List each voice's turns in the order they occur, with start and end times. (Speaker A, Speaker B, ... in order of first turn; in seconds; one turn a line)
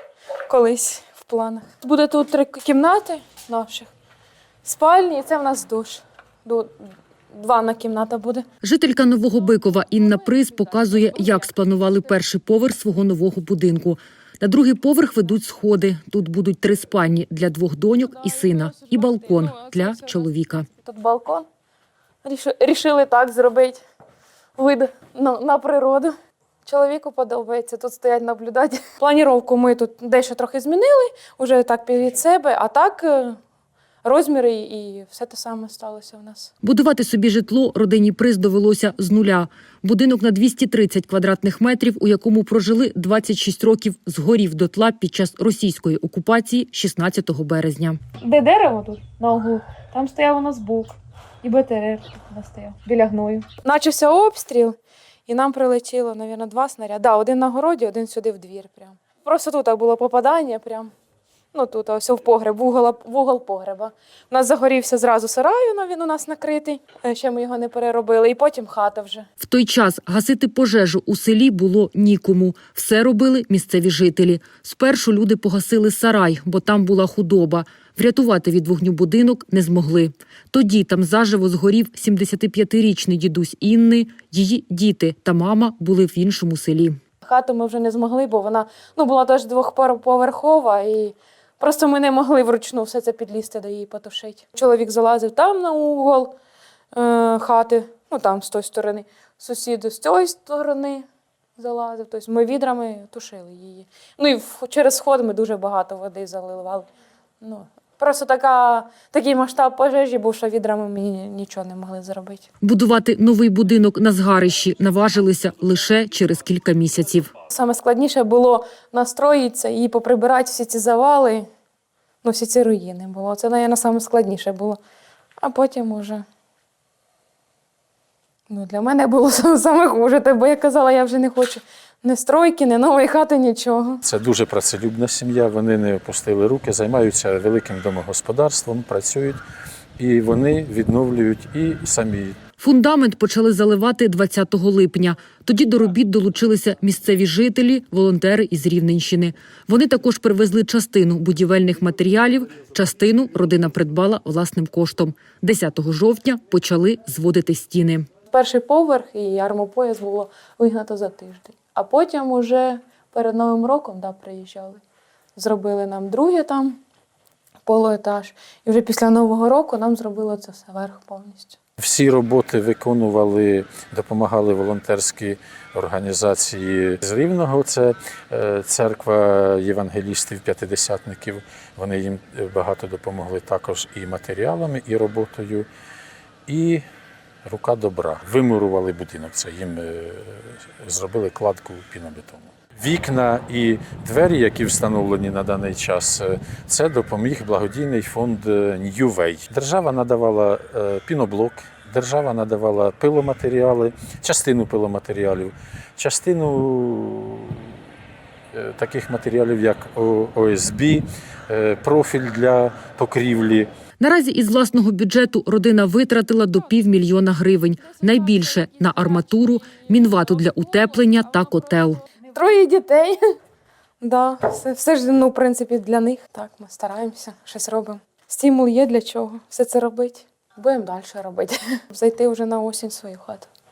Speaker A: 0.5-3.9
Speaker A: 4.6-6.7
Speaker A: 7.3-8.4
Speaker B: 8.6-20.7
Speaker A: 20.8-21.4
Speaker A: 22.2-23.8
Speaker A: 24.6-26.1
Speaker A: 26.6-33.4
Speaker A: 34.0-36.5
Speaker B: 36.6-48.0
Speaker A: 48.2-60.9
Speaker A: 61.5-69.3
Speaker B: 69.4-87.0
Speaker A: 87.2-96.3
Speaker A: 96.9-101.0
Speaker A: 101.6-106.9
Speaker A: 107.4-112.5
Speaker B: 112.6-117.3
Speaker A: 117.5-121.5
Speaker A: 122.2-124.8
Speaker A: 125.4-126.2
Speaker A: 128.5-134.0
Speaker C: 134.0-139.4
Speaker C: 140.0-142.4
Speaker B: 142.6-158.1
Speaker A: 158.3-164.8
Speaker A: 165.3-166.8
Speaker A: 167.7-171.6
Speaker C: 171.8-185.7
Speaker C: 186.5-186.8
Speaker C: 187.4-207.8
Speaker C: 208.5-213.7
Speaker B: 214.0-222.0
Speaker A: 222.2-223.2
Speaker A: 224.0-233.5